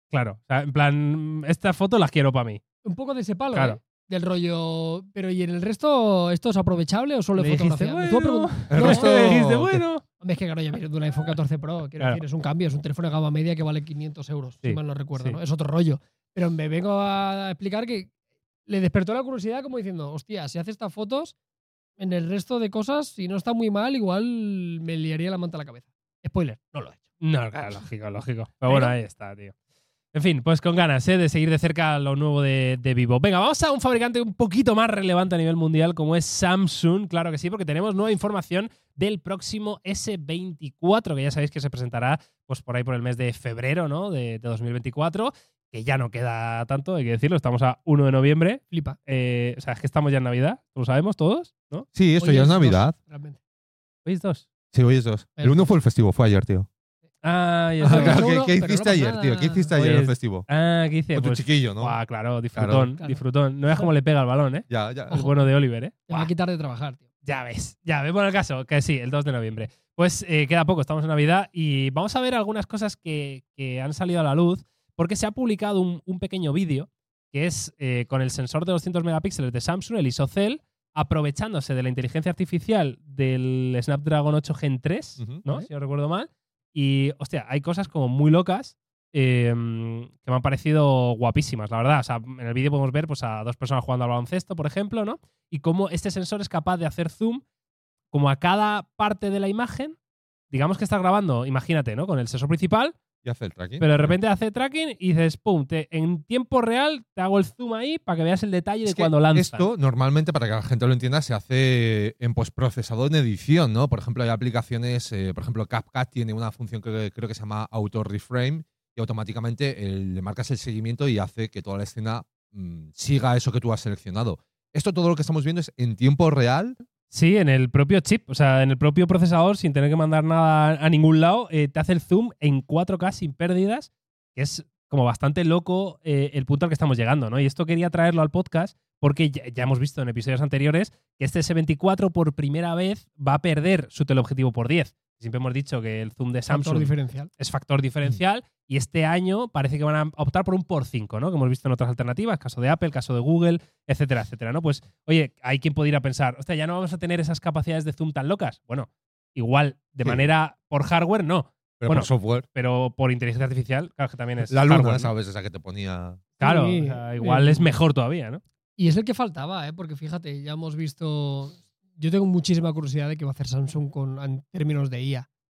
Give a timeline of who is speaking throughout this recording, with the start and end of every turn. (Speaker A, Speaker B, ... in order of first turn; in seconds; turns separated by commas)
Speaker A: 0.1-2.6, Speaker B: 2.8-9.2, Speaker A: 3.5-3.8, Speaker A: 7.4-10.0, Speaker C: 8.7-9.8, Speaker B: 10.2-18.1, Speaker A: 14.6-15.4, Speaker B: 18.7-21.4, Speaker B: 22.0-27.0, Speaker A: 27.2-29.5, Speaker B: 28.7-29.0, Speaker A: 30.1-51.9, Speaker B: 48.7-49.0, Speaker C: 52.0-53.0, Speaker B: 52.2-53.4, Speaker A: 54.0-54.5, Speaker C: 54.7-56.7, Speaker B: 55.4-55.7, Speaker A: 57.2-58.2, Speaker B: 57.8-59.7, Speaker C: 57.8-60.5, Speaker A: 59.8-66.3, Speaker C: 61.1-62.0, Speaker C: 62.5-62.9, Speaker B: 63.0-63.2, Speaker C: 64.7-65.1, Speaker B: 66.1-67.0, Speaker A: 67.2-97.4, Speaker C: 85.2-85.5, Speaker A: 98.1-100.0, Speaker A: 100.5-103.0, Speaker C: 103.2-104.2, Speaker A: 103.8-109.7, Speaker C: 108.8-126.8, Speaker A: 127.1-165.1, Speaker B: 146.5-147.3, Speaker C: 160.0-160.3, Speaker C: 161.8-162.5, Speaker C: 164.5-166.2, Speaker B: 166.4-167.7, Speaker A: 166.4-168.4, Speaker B: 168.8-175.3